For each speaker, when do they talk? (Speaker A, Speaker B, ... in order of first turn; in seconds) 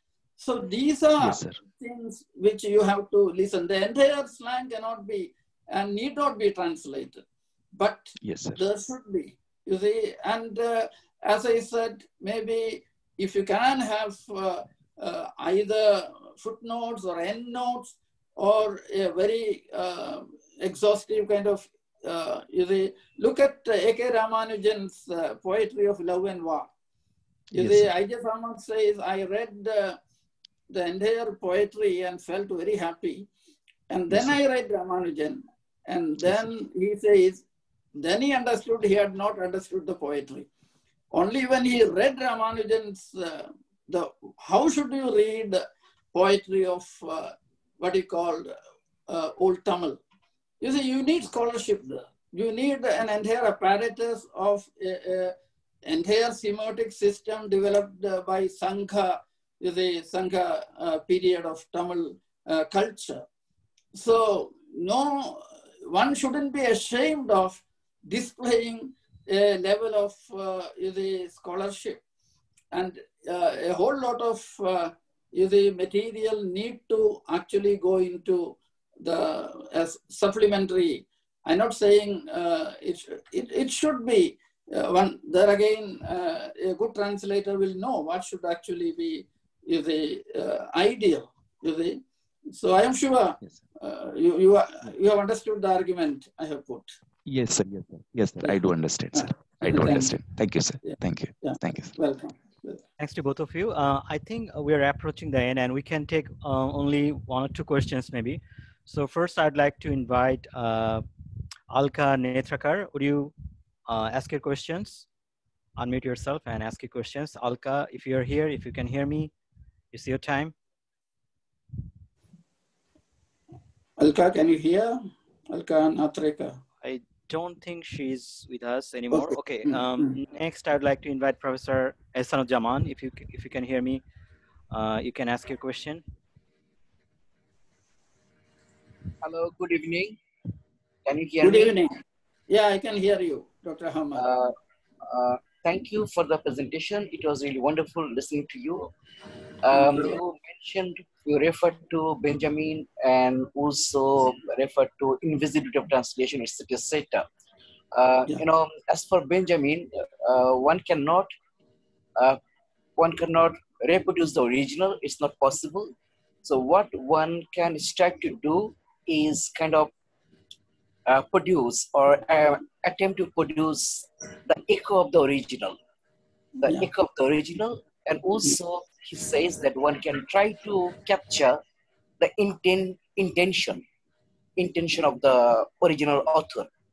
Speaker A: 0.4-26.7, 27.5-30.0, 30.7-33.3, 33.9-37.5, 38.0-40.5, 41.1-45.6, 46.1-48.5, 49.1-50.0, 50.6-63.2, 63.9-72.0, 72.7-96.9, 99.1-100.2, 100.8-102.8, 124.0-125.0, 125.5-126.6, 129.1-130.1, 141.4-141.9, 142.5-144.2, 149.8-150.1
Speaker B: 1.2-1.6, 8.2-8.6, 27.5-27.9, 97.3-101.9
Speaker C: 103.0-111.0, 111.7-113.3, 113.9-115.1, 115.8-119.3, 119.9-120.5, 126.8-134.0, 134.7-136.0
Speaker D: 139.2-140.2, 141.1-141.8, 144.2-148.9, 149.6-157.3, 157.9-161.3, 163.0-165.9, 166.4-169.9, 171.1-175.8, 176.6-181.6, 182.2-183.8, 184.6-186.7